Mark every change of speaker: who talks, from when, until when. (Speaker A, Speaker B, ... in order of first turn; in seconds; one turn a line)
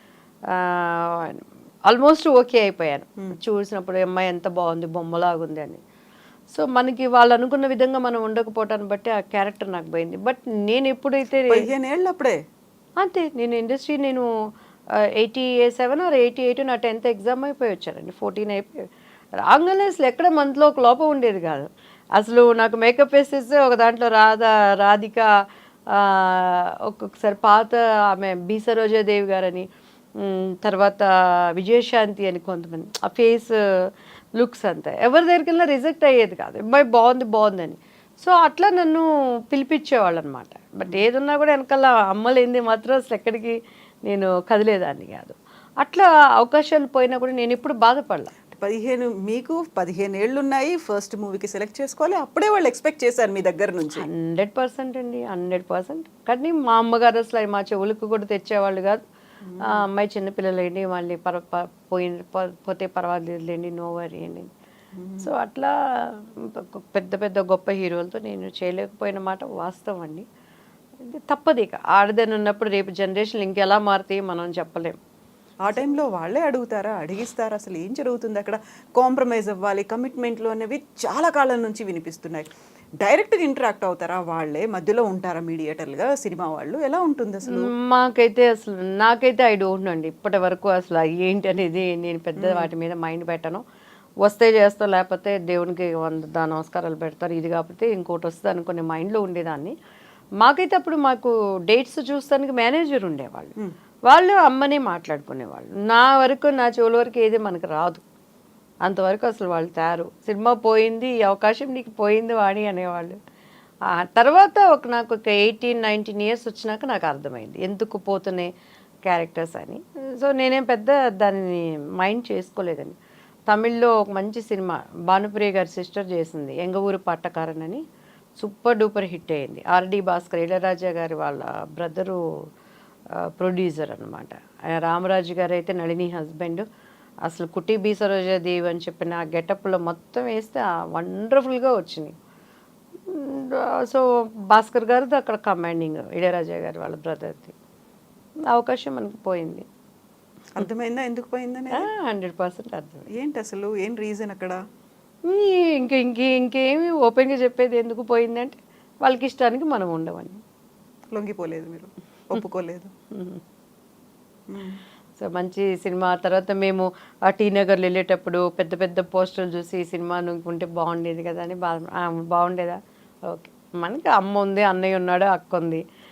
Speaker A: 0.5-5.8
Speaker A: 6.5-11.7
Speaker B: 11.5-12.4
Speaker A: 13.0-14.3
Speaker A: 15.2-18.9
Speaker A: 19.4-25.3
Speaker A: 25.9-29.7
Speaker A: 30.2-48.3
Speaker B: 48.5-54.1
Speaker A: 54.0-59.0
Speaker B: 59.4-59.8
Speaker A: 59.6-64.5
Speaker B: 65.0-65.3
Speaker A: 65.2-70.2
Speaker A: 71.0-75.0
Speaker B: 75.6-82.5
Speaker B: 83.0-87.7
Speaker A: 87.5-93.6
Speaker B: 92.4-92.7
Speaker A: 94.2-99.8
Speaker A: 100.4-103.5
Speaker A: 104.1-108.0
Speaker A: 108.8-113.2
Speaker A: 113.9-118.5
Speaker A: 119.0-123.0
Speaker A: 123.5-127.8
Speaker A: 128.4-132.2
Speaker A: 133.4-136.7
Speaker A: 137.2-142.1
Speaker A: 143.1-147.5
Speaker A: 148.5-149.7
Speaker B: 150.6-151.9
Speaker A: 151.8-153.1
Speaker B: 153.2-154.6
Speaker A: 155.3-160.4
Speaker B: 161.1-162.9
Speaker A: 163.1-163.4
Speaker B: 164.5-164.8
Speaker A: 165.2-175.8